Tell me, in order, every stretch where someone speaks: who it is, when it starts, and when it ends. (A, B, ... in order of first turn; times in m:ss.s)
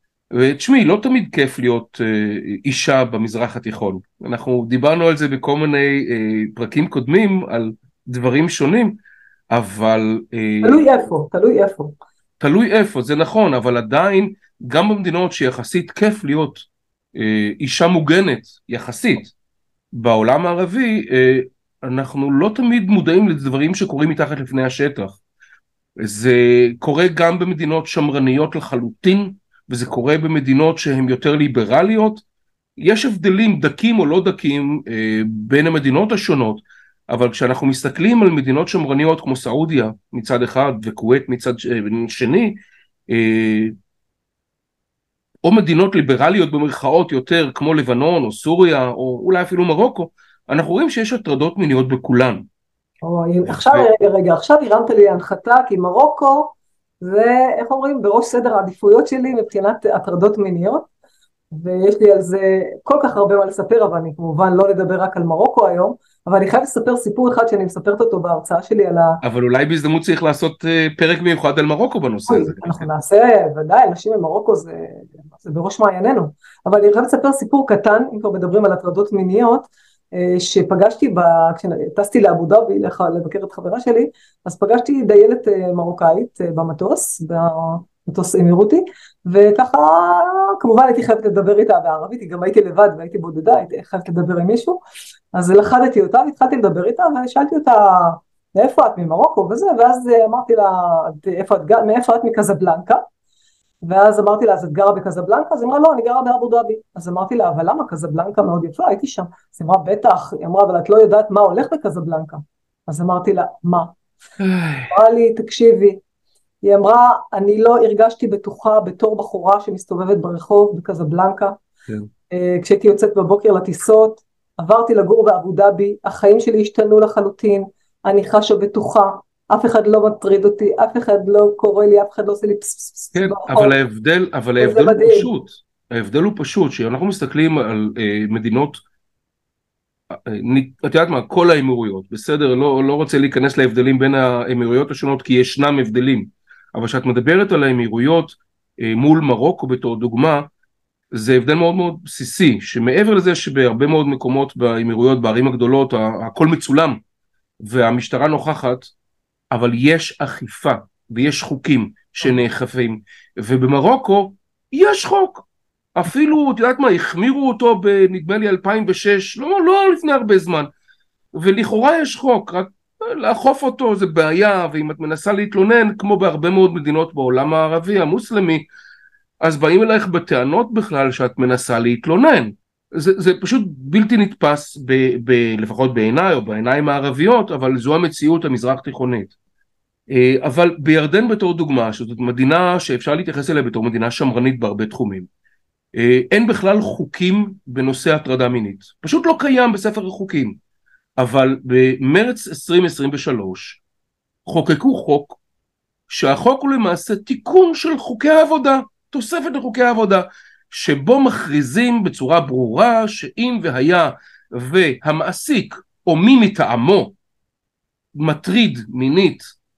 0:00.3-0:09.0 A
0:09.5-0:10.8 A
0:10.6-0:11.9 B
0:12.4-0:19.3 A
0:19.9-0:25.2 A
0:26.0-0:32.2 A
0:32.8-0:42.6 A
0:43.1-0:43.7 A
0:45.4-0:52.4 A
0:53.0-1:00.9 B
0:53.4-0:53.9 A
1:01.5-1:09.2 B
1:09.2-1:12.9 A
1:12.3-1:34.8 B
1:35.3-1:43.0 B
1:43.8-1:54.0 B
1:54.4-1:54.9 A
1:54.9-1:56.0 B
1:56.6-2:01.6 B
2:02.3-2:13.8 B
2:13.2-2:18.8 A
2:14.6-2:15.3 B
2:20.1-2:30.5 A
2:31.1-2:37.0 A
2:37.6-2:38.9 A
2:39.5-2:50.7 A
2:51.3-2:58.7 A
2:59.4-3:09.3 A
3:10.1-3:15.3 A
3:15.9-3:20.6 A
3:21.2-3:23.8 A
3:24.5-3:25.4 A
3:26.1-3:37.1 A
3:38.1-3:39.5 A